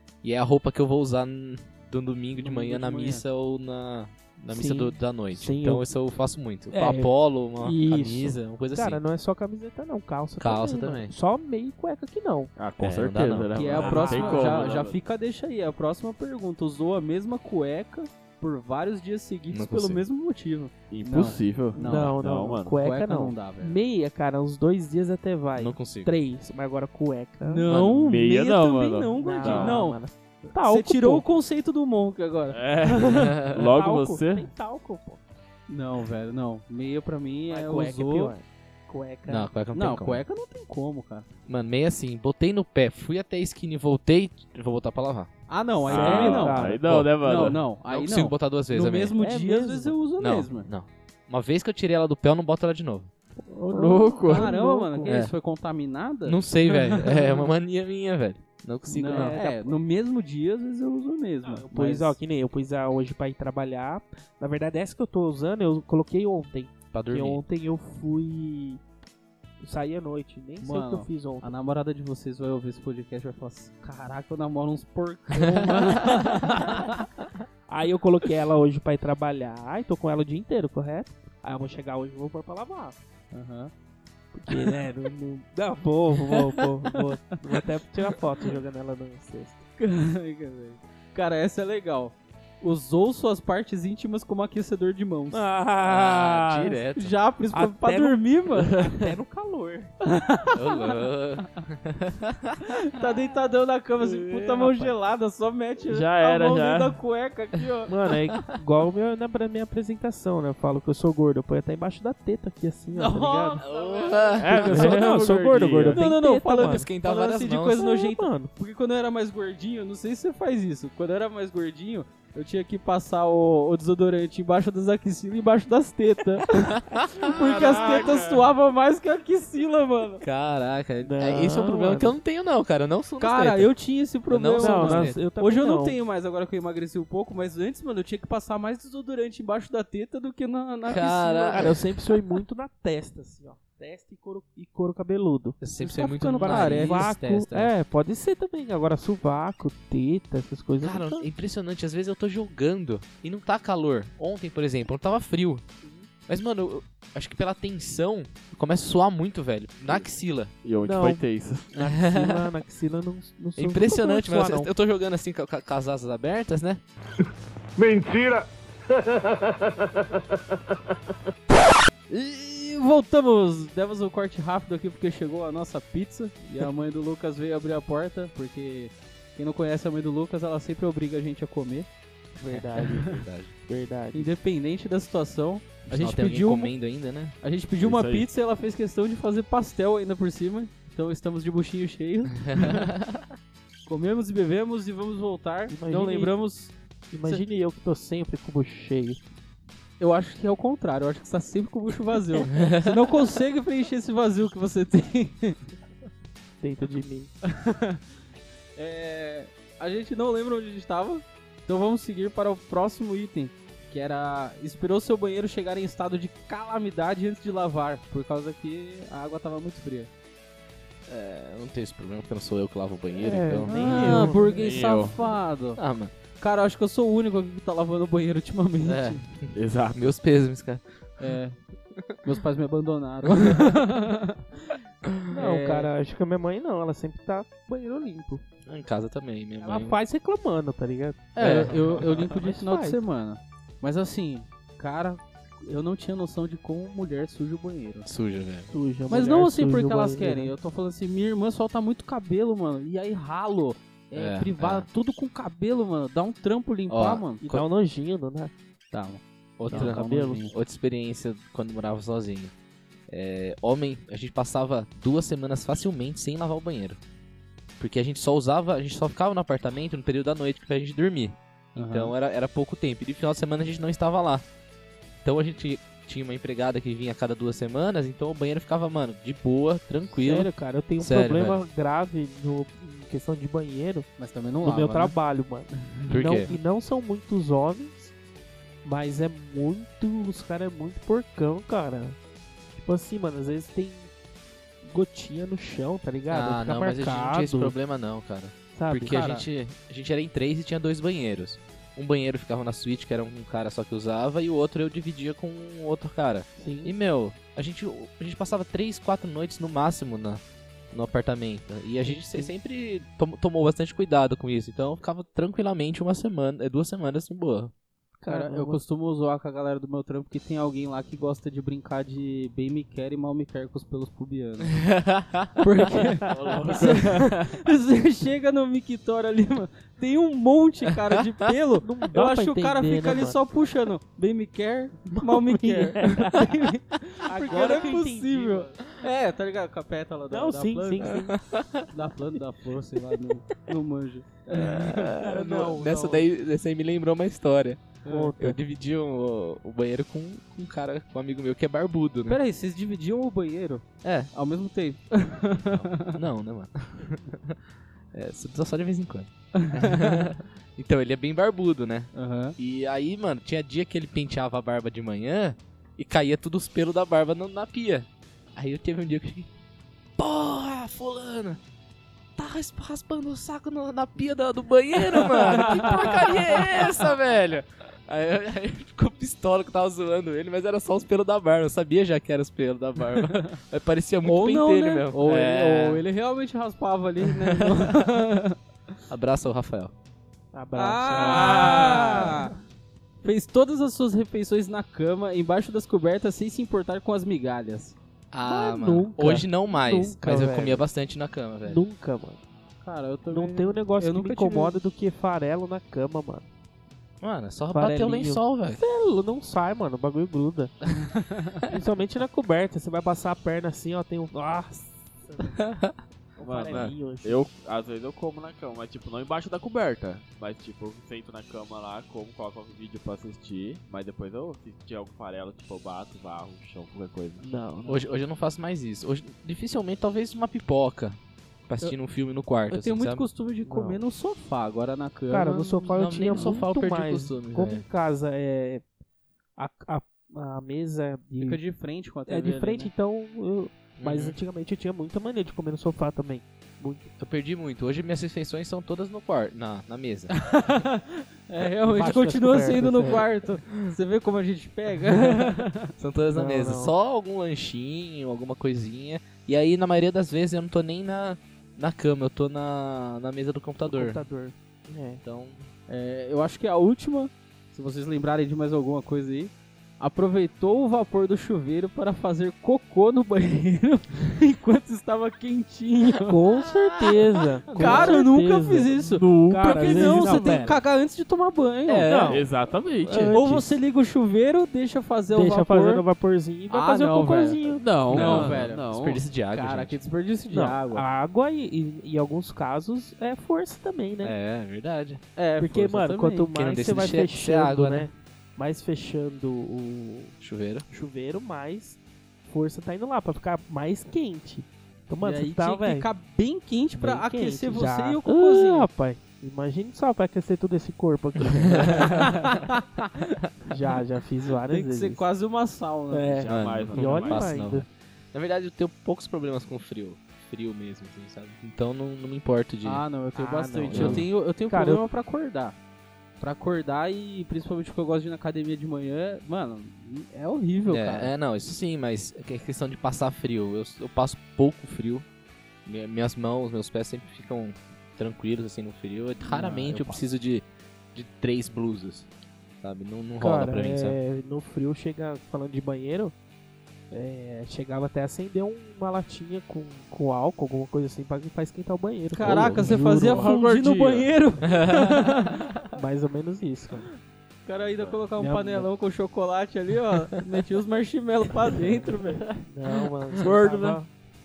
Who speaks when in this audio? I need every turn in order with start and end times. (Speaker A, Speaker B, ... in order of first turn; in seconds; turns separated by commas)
Speaker A: 0.2-9.0, Speaker B: 2.4-3.2, Speaker C: 4.5-5.9, Speaker C: 6.7-12.5, Speaker A: 10.4-11.1, Speaker D: 12.6-15.0, Speaker A: 12.8-14.5, Speaker B: 13.5-22.1, Speaker C: 13.8-14.7, Speaker A: 19.5-20.0, Speaker D: 20.9-22.8, Speaker C: 21.8-27.7, Speaker B: 22.8-23.8, Speaker A: 25.6-26.1, Speaker B: 27.4-30.0, Speaker A: 27.7-28.0, Speaker D: 28.0-29.8, Speaker C: 29.2-31.3, Speaker B: 30.5-33.2, Speaker D: 32.5-34.5, Speaker A: 33.0-33.7, Speaker C: 33.7-35.2, Speaker B: 35.7-38.3, Speaker C: 37.5-39.5, Speaker A: 39.3-40.2, Speaker B: 39.7-41.3, Speaker A: 41.5-45.3, Speaker B: 45.5-46.6, Speaker A: 45.9-49.1, Speaker C: 45.9-46.8, Speaker D: 46.0-47.6, Speaker B: 47.2-50.7, Speaker C: 49.2-50.0, Speaker A: 50.2-53.1, Speaker D: 53.7-54.5, Speaker B: 53.7-57.5, Speaker C: 53.7-55.2, Speaker A: 55.1-55.3, Speaker A: 56.2-59.4, Speaker B: 58.9-62.2, Speaker C: 59.1-59.8, Speaker C: 61.4-68.8, Speaker A: 66.9-67.4, Speaker C: 69.6-71.5, Speaker B: 70.6-77.0, Speaker C: 76.5-76.8, Speaker C: 77.7-83.0, Speaker B: 83.3-83.7, Speaker C: 84.3-89.6, Speaker B: 89.8-95.5, Speaker C: 95.3-96.8, Speaker A: 95.8-97.2, Speaker B: 97.0-99.0, Speaker C: 97.5-99.9, Speaker B: 100.0-101.0, Speaker A: 100.5-102.6, Speaker B: 102.6-107.9, Speaker C: 104.1-104.9, Speaker D: 105.9-107.0, Speaker C: 107.9-113.6, Speaker B: 112.9-114.4, Speaker A: 113.6-115.0, Speaker D: 114.4-116.0, Speaker C: 114.5-116.9, Speaker B: 115.9-130.2, Speaker A: 116.5-117.8, Speaker C: 117.8-118.5, Speaker A: 126.5-128.0, Speaker D: 127.4-128.4, Speaker A: 130.2-133.7, Speaker C: 131.0-132.2, Speaker B: 133.2-141.8, Speaker A: 134.3-135.2, Speaker C: 134.6-136.0, Speaker A: 140.9-141.8, Speaker C: 141.5-145.6, Speaker A: 145.6-147.7, Speaker B: 145.8-147.1, Speaker C: 146.3-151.3, Speaker A: 150.8-155.7, Speaker A: 156.3-160.5, Speaker D: 160.6-161.7, Speaker C: 160.8-164.7, Speaker A: 161.8-162.5, Speaker A: 163.6-166.8, Speaker E: 167.8-170.8, Speaker B: 172.1-181.9, Speaker C: 182.3-184.3, Speaker A: 182.5-183.5, Speaker B: 184.1-186.7, Speaker A: 185.9-187.3, Speaker B: 187.4-192.8, Speaker D: 187.8-188.3, Speaker A: 192.5-193.2, Speaker B: 193.9-196.7, Speaker C: 195.7-196.3, Speaker C: 197.1-199.2, Speaker B: 200.0-205.6, Speaker A: 202.5-202.9, Speaker C: 206.6-207.3, Speaker B: 207.5-208.0, Speaker B: 208.8-220.1, Speaker A: 221.1-224.4, Speaker C: 223.1-224.7, Speaker B: 223.7-225.8, Speaker D: 224.6-225.2, Speaker A: 225.8-226.1, Speaker B: 226.4-229.2, Speaker A: 228.8-231.4, Speaker D: 229.5-230.1, Speaker B: 231.2-231.6, Speaker B: 232.2-234.4, Speaker A: 233.4-233.8, Speaker B: 235.3-235.9, Speaker C: 235.3-238.4, Speaker A: 238.7-240.0, Speaker C: 239.6-243.0, Speaker B: 241.4-248.1, Speaker A: 241.4-242.1, Speaker A: 248.1-248.7, Speaker C: 248.7-250.5, Speaker B: 249.1-257.4, Speaker A: 254.2-254.9, Speaker A: 256.9-257.7, Speaker C: 257.4-258.5, Speaker B: 258.9-260.5, Speaker A: 259.6-262.5, Speaker C: 259.7-260.5, Speaker A: 263.1-267.0, Speaker A: 267.8-274.4, Speaker B: 271.8-272.1, Speaker A: 275.2-281.6, Speaker C: 280.1-284.1, Speaker B: 284.2-285.2, Speaker C: 284.6-288.1, Speaker A: 286.1-286.5, Speaker C: 288.8-292.2, Speaker C: 292.8-294.1, Speaker C: 294.8-297.8, Speaker A: 296.3-310.4, Speaker C: 298.8-299.2, Speaker B: 299.1-299.5, Speaker C: 306.6-306.9, Speaker A: 310.9-317.7, Speaker C: 312.0-312.5, Speaker C: 318.2-318.8, Speaker B: 318.3-324.8, Speaker A: 324.7-325.6, Speaker B: 325.6-341.1, Speaker C: 326.2-327.0, Speaker D: 326.3-327.6, Speaker C: 331.8-333.4, Speaker A: 335.1-336.1, Speaker C: 335.6-336.6, Speaker C: 337.3-338.8, Speaker A: 337.5-337.9, Speaker C: 340.3-341.4, Speaker A: 341.0-341.9, Speaker B: 341.9-345.1, Speaker A: 344.5-352.4, Speaker C: 345.2-346.2, Speaker B: 348.1-348.3, Speaker C: 348.1-348.6, Speaker B: 352.3-356.2, Speaker A: 354.0-354.3, Speaker A: 355.7-357.6, Speaker A: 358.1-369.5, Speaker B: 359.6-360.3, Speaker B: 362.1-362.6, Speaker A: 370.2-371.6, Speaker A: 372.4-386.0, Speaker B: 375.2-376.4, Speaker B: 383.1-383.5, Speaker B: 384.2-388.6, Speaker A: 387.7-388.0, Speaker A: 389.1-389.9, Speaker C: 390.5-392.5, Speaker B: 390.8-392.5, Speaker A: 391.4-392.3, Speaker B: 393.2-398.0, Speaker A: 398.3-401.8, Speaker C: 398.4-400.9, Speaker C: 401.6-402.4, Speaker B: 402.8-404.8, Speaker C: 403.3-406.5, Speaker A: 407.2-408.8, Speaker C: 407.7-410.8, Speaker B: 411.2-411.6, Speaker C: 411.7-415.6, Speaker A: 415.6-415.9, Speaker C: 416.4-417.4, Speaker D: 416.4-427.4, Speaker C: 427.4-428.0, Speaker A: 427.9-433.2, Speaker B: 432.7-436.0, Speaker C: 433.6-434.0, Speaker C: 435.3-438.8, Speaker A: 435.9-437.9, Speaker C: 439.6-441.6, Speaker B: 441.4-442.9, Speaker C: 442.3-447.1, Speaker A: 444.0-444.4, Speaker A: 447.2-450.4, Speaker B: 450.4-455.9, Speaker C: 451.8-453.3, Speaker A: 453.0-453.9, Speaker A: 456.0-464.2, Speaker C: 456.3-456.9, Speaker C: 463.9-465.2, Speaker A: 465.2-465.7, Speaker B: 465.9-476.4, Speaker C: 476.2-480.8, Speaker A: 476.7-478.1, Speaker B: 477.7-482.2, Speaker D: 477.8-478.1, Speaker D: 479.2-480.8, Speaker A: 481.9-482.5, Speaker C: 482.0-482.5, Speaker D: 482.3-483.4, Speaker C: 483.0-483.7, Speaker B: 483.3-486.1, Speaker C: 485.3-487.9, Speaker B: 486.7-491.1, Speaker D: 487.7-489.2, Speaker A: 488.1-490.0, Speaker C: 490.5-494.3, Speaker A: 494.2-495.2, Speaker B: 495.4-496.5, Speaker C: 495.6-500.4, Speaker A: 496.6-498.1, Speaker A: 500.4-500.9, Speaker C: 500.9-506.1, Speaker B: 505.2-508.9, Speaker C: 507.0-512.5, Speaker A: 511.4-512.4, Speaker B: 511.9-513.1, Speaker C: 513.7-515.2, Speaker B: 514.7-516.5, Speaker C: 516.1-517.9, Speaker A: 516.5-523.0, Speaker D: 516.5-517.5, Speaker B: 522.8-525.8, Speaker C: 523.4-525.0, Speaker A: 523.9-524.3, Speaker B: 526.4-531.3, Speaker A: 530.9-535.2, Speaker A: 535.9-542.3, Speaker B: 539.4-540.2, Speaker A: 542.8-544.2, Speaker C: 543.4-546.3, Speaker C: 547.1-553.5, Speaker B: 552.3-555.8, Speaker A: 552.4-552.9, Speaker D: 553.2-554.3, Speaker A: 554.7-555.1, Speaker C: 555.9-557.1, Speaker B: 557.7-562.5, Speaker D: 557.8-558.2, Speaker C: 558.4-558.9, Speaker C: 562.6-564.1, Speaker D: 563.4-564.0